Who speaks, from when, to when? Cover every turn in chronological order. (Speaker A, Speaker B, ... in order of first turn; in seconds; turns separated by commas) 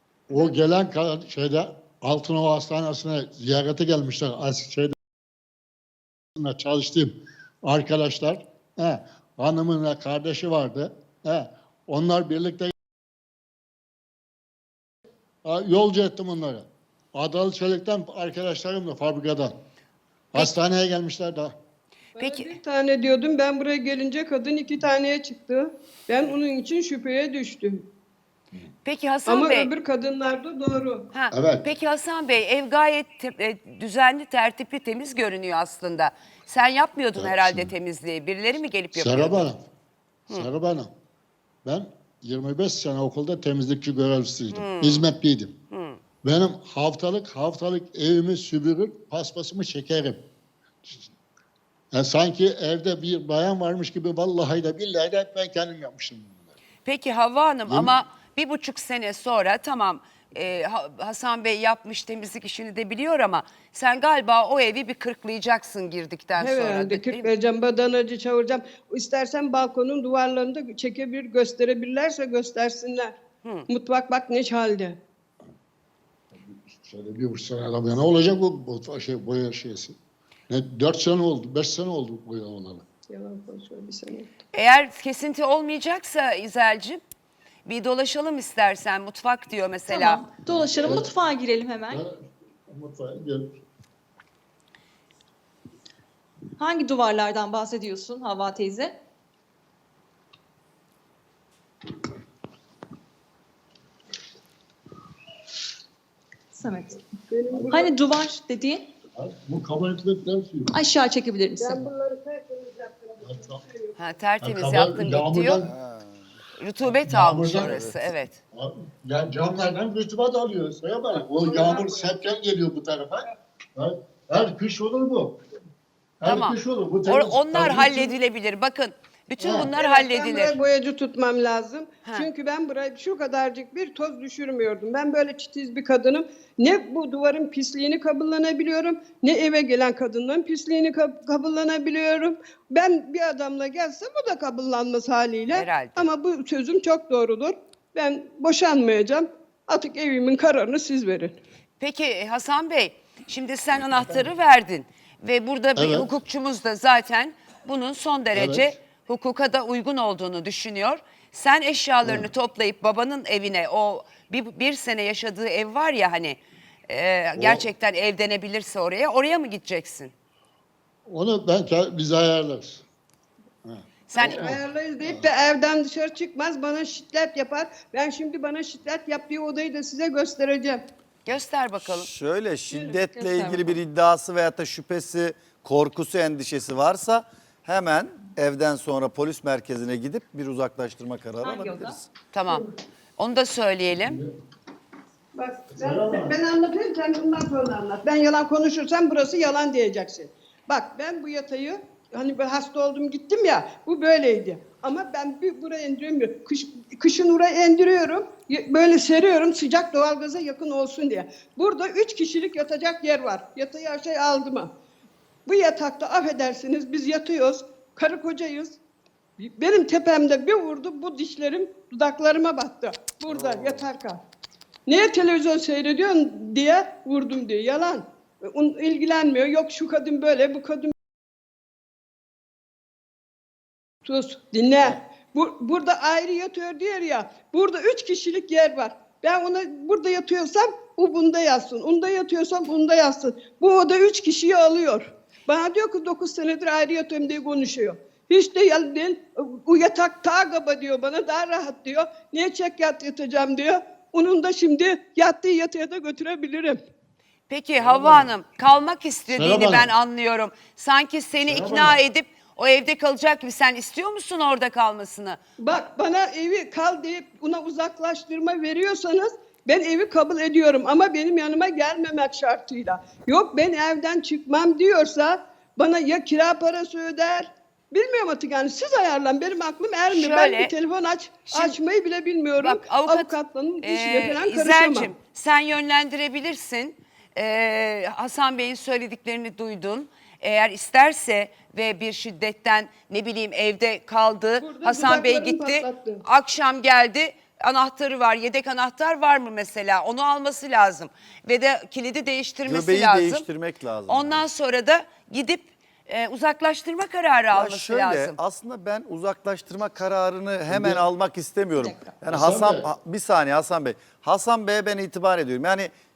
Speaker A: 0.3-5.0, Speaker A: 6.4-12.7, Speaker A: 15.4-19.6, Speaker A: 20.3-21.6, Speaker B: 22.2-27.9, Speaker C: 22.2-22.6, Speaker C: 28.8-29.7, Speaker B: 29.2-31.1, Speaker C: 31.1-39.5, Speaker A: 31.3-31.7, Speaker A: 37.1-37.7, Speaker A: 38.9-39.7, Speaker A: 40.3-40.9, Speaker A: 41.6-45.5, Speaker C: 44.5-45.1, Speaker C: 45.7-46.0, Speaker A: 46.2-50.2, Speaker A: 51.9-56.5, Speaker C: 56.9-67.3, Speaker A: 57.7-57.9, Speaker B: 66.4-73.1, Speaker C: 73.4-73.7, Speaker B: 73.7-75.0, Speaker A: 76.3-80.0, Speaker A: 80.5-82.8, Speaker B: 83.1-84.3, Speaker C: 84.5-87.0, Speaker C: 87.7-90.2, Speaker D: 89.9-92.0, Speaker A: 90.5-91.1, Speaker A: 91.9-93.6, Speaker D: 96.6-99.0, Speaker D: 106.5-107.0, Speaker B: 107.3-107.9, Speaker A: 107.5-107.8, Speaker D: 107.7-108.8, Speaker A: 109.2-110.8, Speaker D: 110.7-111.8, Speaker B: 111.6-113.9, Speaker A: 113.2-113.6, Speaker C: 114.0-115.7, Speaker A: 114.4-115.7, Speaker E: 115.7-116.1, Speaker C: 116.6-118.4, Speaker A: 117.0-117.9, Speaker E: 117.5-117.9, Speaker A: 118.5-125.4, Speaker B: 121.4-122.1, Speaker A: 126.2-128.1, Speaker C: 126.2-130.6, Speaker A: 129.4-129.7, Speaker B: 129.5-151.4, Speaker C: 145.5-146.1, Speaker C: 151.8-170.1, Speaker A: 155.8-156.1, Speaker A: 158.3-158.7, Speaker A: 162.0-162.3, Speaker A: 167.4-167.7, Speaker A: 171.1-172.8, Speaker A: 173.6-175.2, Speaker C: 174.1-174.6, Speaker B: 174.2-180.8, Speaker C: 181.2-182.1, Speaker E: 181.8-192.1, Speaker B: 182.7-183.0, Speaker D: 183.2-183.8, Speaker D: 191.4-192.0, Speaker C: 192.3-194.2, Speaker B: 195.3-214.7, Speaker A: 195.8-196.4, Speaker B: 215.5-218.8, Speaker B: 219.4-224.2, Speaker E: 223.3-223.9, Speaker B: 224.9-230.9, Speaker B: 234.1-256.8, Speaker C: 257.5-265.9, Speaker A: 257.8-258.3, Speaker A: 259.3-259.9, Speaker A: 261.4-262.0, Speaker B: 265.6-285.1, Speaker C: 280.1-280.7, Speaker C: 281.5-281.8, Speaker C: 282.6-303.5, Speaker B: 294.6-296.2, Speaker E: 302.6-304.5, Speaker C: 304.1-308.4, Speaker E: 307.5-315.9, Speaker A: 310.7-311.0, Speaker D: 311.8-312.0, Speaker A: 312.3-312.9